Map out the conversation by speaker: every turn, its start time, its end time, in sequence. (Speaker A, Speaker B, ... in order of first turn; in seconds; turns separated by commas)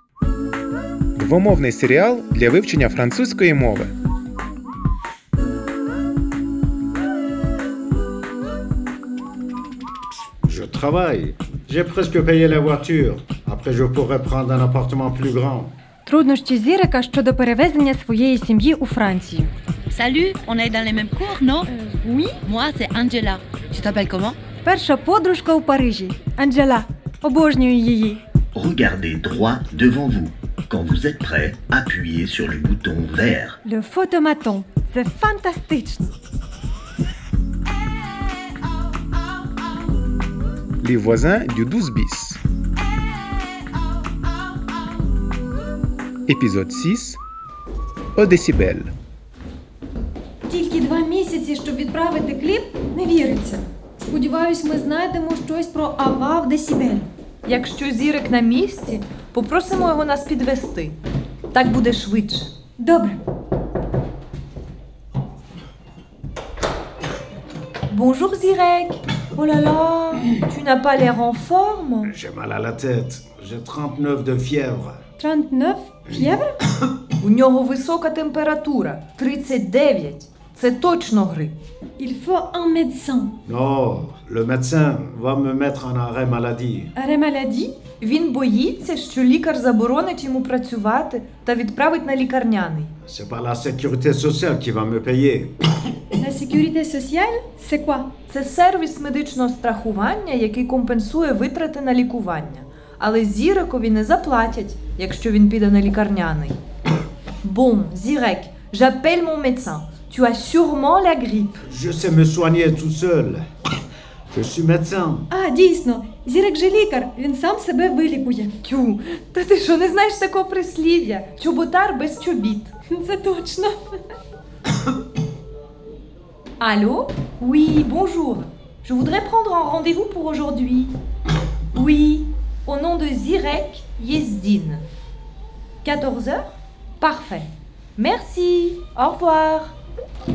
Speaker A: 1.1-3.9, Speaker B: 10.5-15.7, Speaker C: 16.0-19.5, Speaker D: 19.9-21.7, Speaker C: 21.7-22.4, Speaker D: 22.4-24.4, Speaker C: 24.6-28.2, Speaker E: 28.5-33.6, Speaker C: 33.6-36.1, Speaker A: 40.8-42.4, Speaker A: 46.3-47.2, Speaker A: 48.1-48.9, Speaker C: 50.5-57.1, Speaker F: 57.5-61.0, Speaker F: 61.5-62.5, Speaker C: 62.8-63.2, Speaker F: 67.9-72.1, Speaker B: 72.0-75.0, Speaker C: 75.2-76.5, Speaker F: 77.2-81.5, Speaker C: 82.0-83.3, Speaker B: 83.5-86.9, Speaker C: 87.0-87.7, Speaker F: 88.0-92.9, Speaker B: 93.0-95.5, Speaker C: 96.2-98.1, Speaker F: 98.3-106.6, Speaker F: 107.4-111.6, Speaker B: 111.7-113.5, Speaker B: 114.3-115.3, Speaker C: 115.3-118.5, Speaker F: 118.6-122.7, Speaker C: 122.9-123.8, Speaker F: 126.6-130.9, Speaker F: 131.7-134.8, Speaker F: 135.8-139.7